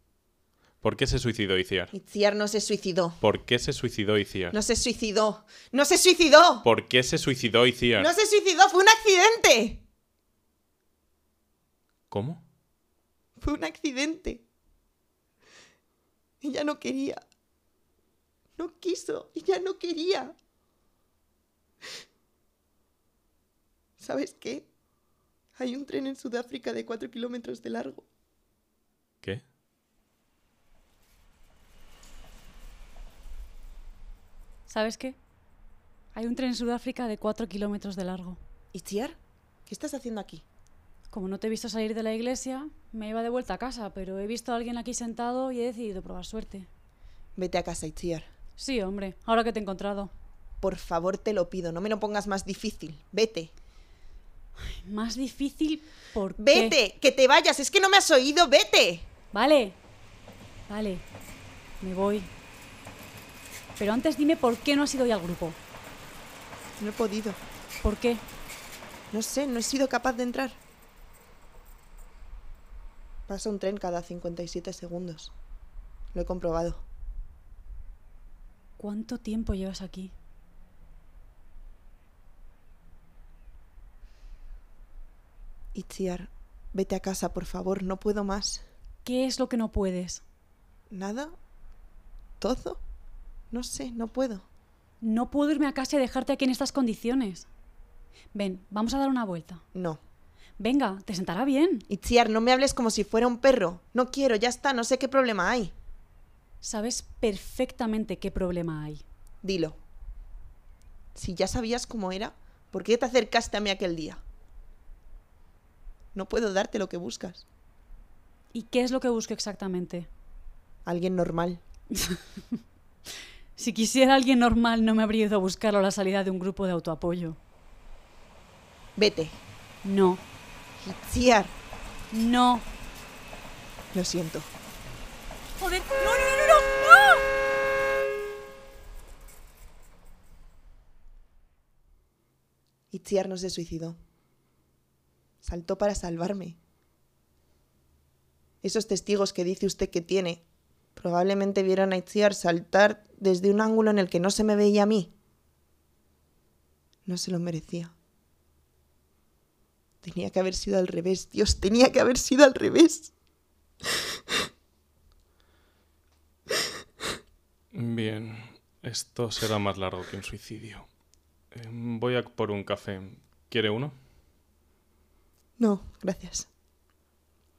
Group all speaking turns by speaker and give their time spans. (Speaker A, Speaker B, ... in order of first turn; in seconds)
Speaker A: 0.8-1.9, 3.2-4.6, 6.6-8.1, 12.1-12.4, 167.7-170.8, 171.5-173.9
Speaker B: 1.9-3.2, 4.5-6.6, 8.0-9.8, 13.4-14.4, 16.4-17.2, 18.6-20.3, 24.0-24.7, 25.6-28.0, 38.7-40.4, 47.4-48.3, 50.6-53.5, 56.4-59.1, 66.8-67.4, 69.1-70.6, 73.3-75.3, 76.1-76.8, 85.7-88.6, 90.9-91.3, 92.4-92.8, 93.5-94.4, 99.7-100.0, 101.9-105.7, 109.4-109.8, 111.1-114.2, 116.1-117.4, 120.8-121.6, 128.9-129.4, 130.8-131.5, 133.9-134.5, 142.9-144.0, 145.4-146.6, 148.6-150.4, 150.9-155.1, 157.1-157.9, 160.0-163.1, 175.6-176.5
Speaker C: 34.7-35.2, 36.1-38.4, 41.1-46.7, 48.6-50.1, 54.6-56.8, 59.3-59.8, 60.7-61.0, 61.8-62.3, 63.8-65.6, 67.8-68.2, 78.8-80.1, 89.0-90.2, 95.0-97.5, 98.3-99.6, 100.6-101.8, 106.6-109.0, 118.5-120.1, 121.9-122.6, 123.5-127.4, 129.8-130.2, 132.1-132.7, 135.6-137.2